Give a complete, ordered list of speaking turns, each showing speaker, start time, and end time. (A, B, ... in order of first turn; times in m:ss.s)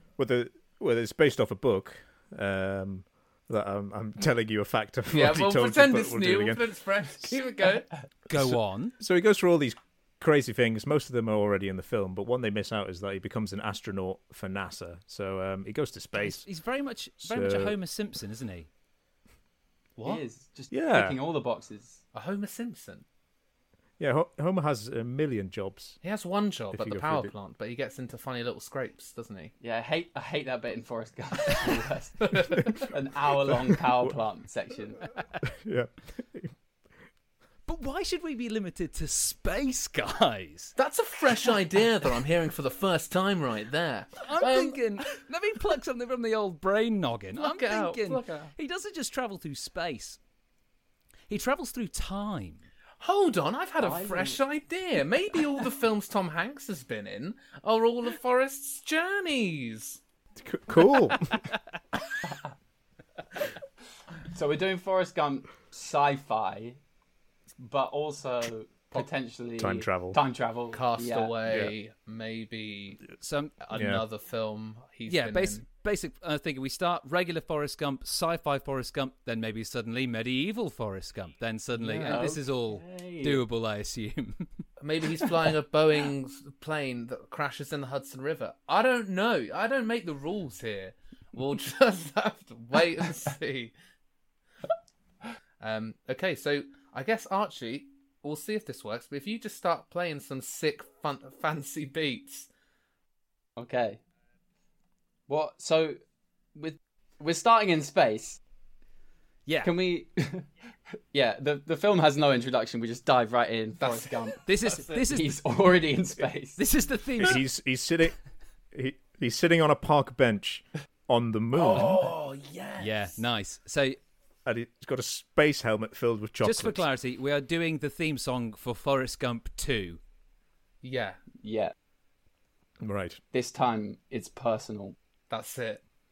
0:00.2-0:06.7 A
0:05.1-0:07.9 B
0:08.3-0:08.9 C
0:08.3-0:16.4 A
0:16.2-0:18.7 C
0:17.2-0:17.8 A
0:20.0-0:20.2 B
0:20.0-0:22.0 D
0:20.7-0:21.2 A
0:22.1-0:23.0 B
0:24.0-0:26.0 A
0:26.0-0:29.5 B
0:26.7-0:27.3 A
0:29.6-0:35.0 D
0:32.2-0:32.9 B
0:35.5-0:36.5 A
0:37.7-0:40.7 C
0:40.8-0:44.9 B
0:44.2-0:50.2 C
0:47.3-0:48.5 B
0:51.3-0:52.6 C
0:53.0-1:00.0 B
0:53.8-0:54.4 D
1:00.4-1:01.3 A
1:04.3-1:06.8 D
1:07.6-1:11.3 D
1:09.6-1:10.2 A
1:10.7-1:13.0 B
1:11.4-1:11.7 A
1:13.2-1:13.6 C
1:13.6-1:15.6 B
1:13.7-1:14.0 A
1:15.1-1:24.5 C
1:21.8-1:22.3 B
1:22.0-1:23.4 D
1:24.8-1:33.7 B
1:35.6-1:42.5 B
1:43.6-1:44.0 D
1:45.3-1:46.0 D
1:46.5-1:48.4 D
1:49.4-1:49.8 C
1:49.6-1:50.5 D
1:51.1-1:54.4 D
1:53.8-1:55.0 B
1:54.4-1:55.4 C
1:54.9-1:56.6 D
1:56.6-1:57.4 C
1:57.2-1:58.2 A
1:58.7-2:02.0 A
2:01.5-2:03.2 B
2:02.8-2:04.0 C
2:04.4-2:06.8 A
2:06.4-2:10.0 C
2:10.8-2:11.2 B
2:11.4-2:11.7 D
2:12.8-2:13.2 A
2:13.3-2:15.0 D
2:15.3-2:15.8 B